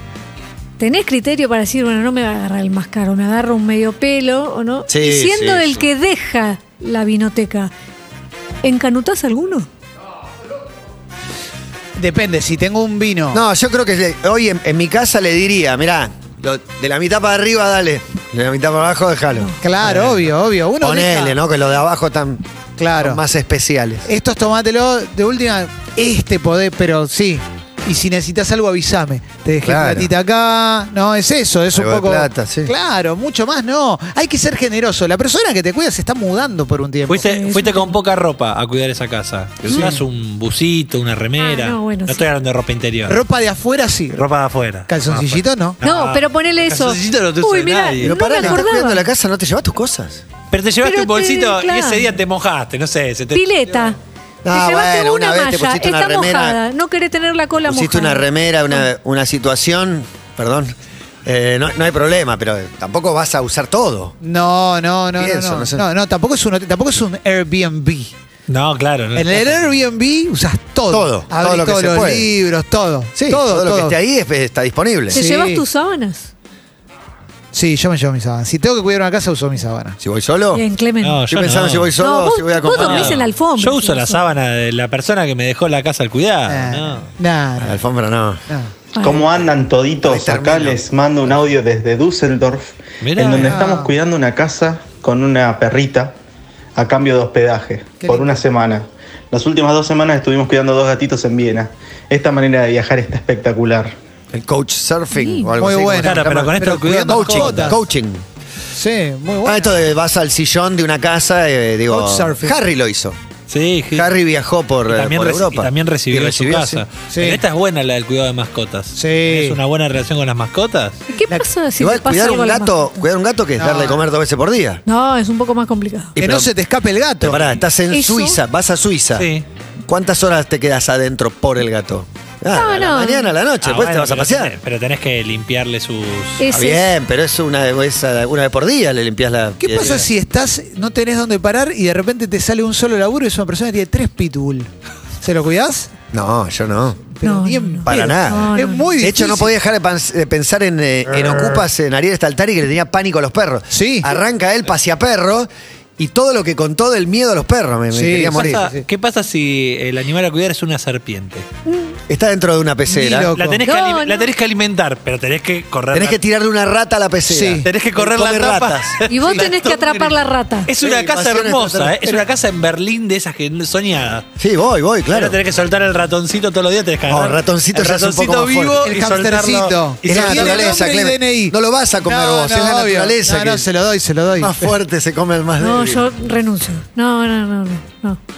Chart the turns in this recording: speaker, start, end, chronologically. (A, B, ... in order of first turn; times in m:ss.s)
0:00.8-0:07.7 A
0:04.9-0:05.8 B
0:08.6-0:09.7 A
0:12.0-0:13.4 C
0:13.3-0:20.0 B
0:19.6-0:21.4 C
0:20.8-0:24.1 B
0:22.8-0:23.2 C
0:24.0-0:37.2 C
0:29.6-0:30.1 B
0:31.7-0:32.7 B
0:37.1-0:43.2 D
0:37.2-0:37.9 A
0:39.7-0:40.0 C
0:41.4-0:42.2 A
0:43.1-0:44.2 C
0:44.1-0:48.1 D
0:44.9-0:45.8 C
0:45.8-0:49.0 A
0:48.0-0:50.2 B
0:50.5-0:53.8 D
0:50.8-0:52.1 A
0:53.3-0:54.0 A
0:54.4-0:56.6 B
0:54.5-0:58.8 A
0:57.6-1:00.7 B
1:01.2-1:04.2 B
1:04.2-1:08.1 C
1:05.2-1:05.8 B
1:08.5-1:09.6 D
1:09.1-1:14.0 C
1:10.9-1:12.3 B
1:13.1-1:15.2 B
1:15.1-1:16.3 A
1:15.1-1:15.6 C
1:17.5-1:20.0 C
1:20.0-1:20.6 B
1:20.5-1:21.2 A
1:21.0-1:21.9 D
1:21.3-1:23.2 B
1:22.0-1:24.2 A
1:22.6-1:27.1 D
1:26.5-1:27.8 C
1:27.6-1:28.4 B
1:29.0-1:29.3 A
1:29.0-1:36.1 E
1:30.0-1:30.8 B
1:33.0-1:33.6 D
1:33.4-1:33.9 C
1:36.7-1:43.9 E
1:38.0-1:38.3 C
1:44.3-1:48.2 B
1:45.1-1:45.5 A
1:45.6-1:47.8 C
1:46.0-1:47.7 D
1:48.7-1:49.7 C
1:49.4-1:53.2 B
1:51.9-1:52.6 C
1:53.5-1:54.1 D
1:53.9-1:56.8 B
1:54.9-2:01.0 D
1:57.1-1:57.4 C
1:58.9-1:59.6 C
2:01.1-2:03.0 A
2:01.8-2:04.8 B
2:03.6-2:04.0 C
2:04.8-2:06.1 A
2:06.1-2:06.5 B
2:06.2-2:07.4 C
2:07.2-2:09.3 B
2:07.9-2:08.4 A
2:09.2-2:09.4 D
2:09.9-2:14.5 B
2:12.5-2:13.3 A
2:13.6-2:16.4 D
2:16.4-2:16.8 A
2:16.5-2:20.1 B
2:19.6-2:24.7 C
2:25.2-2:25.9 C
2:26.1-2:27.1 B
2:27.2-2:29.5 C
2:27.2-2:29.1 A
2:27.8-2:38.6 B
2:33.7-2:34.1 C
2:37.9-2:38.8 C
2:38.3-2:41.5 D
2:42.1-2:43.3 B
2:42.9-2:43.6 C
2:43.4-2:46.2 D
2:43.6-2:44.3 A
2:45.9-2:49.0 B
2:47.3-2:47.7 C
2:47.6-2:54.3 D
2:49.1-2:50.7 A
2:50.8-2:52.2 B
2:54.4-2:55.4 B
2:55.1-3:00.8 D
2:57.1-2:58.8 B
2:58.8-3:04.7 C
3:00.0-3:03.7 B
3:04.4-3:06.0 B
3:05.6-3:08.2 A